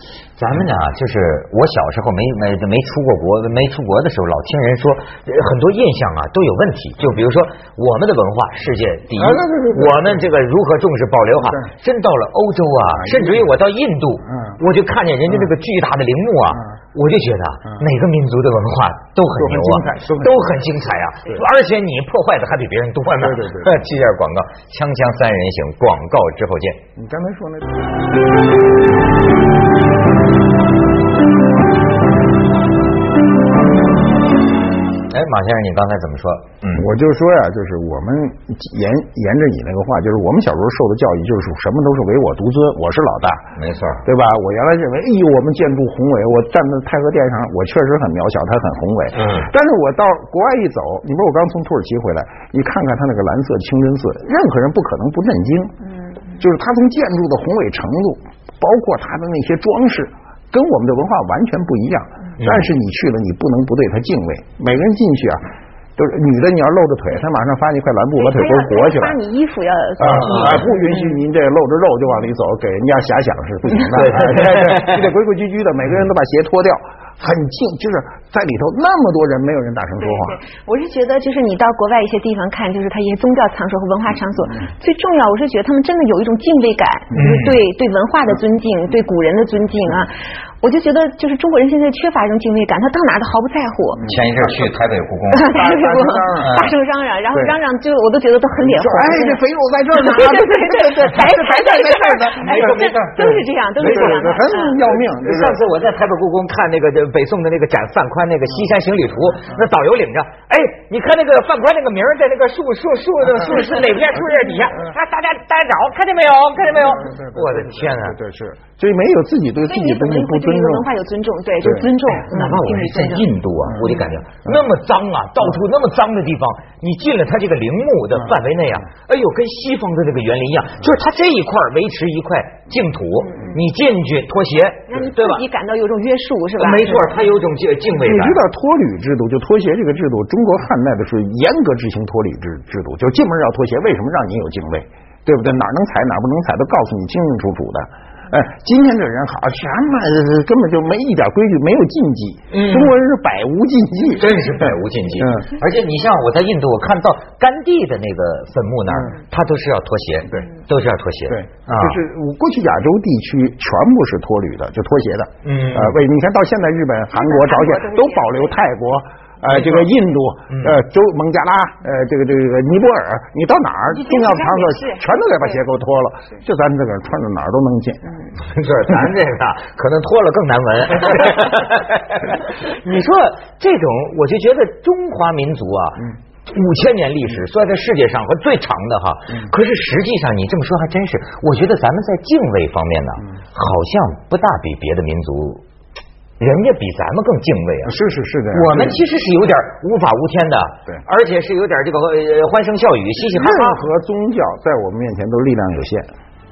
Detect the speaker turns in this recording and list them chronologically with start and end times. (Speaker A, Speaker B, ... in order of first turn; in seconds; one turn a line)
Speaker A: 0.4-26.8
Speaker B: 9.2-10.2
Speaker B: 13.0-13.4
Speaker B: 14.3-14.6
Speaker B: 19.3-20.4
Speaker B: 23.2-23.8
Speaker B: 27.0-27.9
Speaker A: 35.1-36.9
Speaker B: 36.8-43.5
Speaker A: 43.5-44.0
Speaker B: 44.0-55.7
Speaker A: 49.1-49.5
Speaker B: 56.4-65.4
Speaker A: 62.4-62.7
Speaker B: 66.0-69.2
Speaker C: 68.2-70.7
Speaker B: 70.0-80.4
Speaker A: 70.0-70.7
Speaker A: 73.8-75.1
Speaker C: 80.0-94.0
Speaker A: 87.1-87.6
Speaker B: 94.0-94.7
Speaker A: 94.0-95.6
Speaker C: 95.3-99.4
Speaker B: 95.5-96.5
Speaker A: 96.4-96.7
Speaker B: 98.6-105.6
Speaker C: 99.9-104.8
Speaker A: 102.4-104.2
Speaker A: 104.9-118.2
Speaker B: 116.7-120.9
Speaker C: 119.7-123.2
Speaker B: 121.6-121.9
Speaker A: 122.1-135.4
Speaker C: 134.9-137.1
Speaker A: 136.6-138.4
Speaker B: 138.0-155.5
Speaker A: 152.5-152.9
Speaker A: 154.1-162.0
Speaker B: 158.9-159.1
Speaker B: 161.3-178.2
Speaker A: 165.4-166.0
Speaker C: 167.1-168.5
Speaker A: 169.4-169.9
Speaker A: 170.5-170.8
Speaker C: 173.9-175.1
Speaker A: 178.4-195.6
Speaker A: 196.4-197.9
Speaker B: 197.8-199.0
Speaker A: 198.5-203.8
Speaker B: 203.3-206.1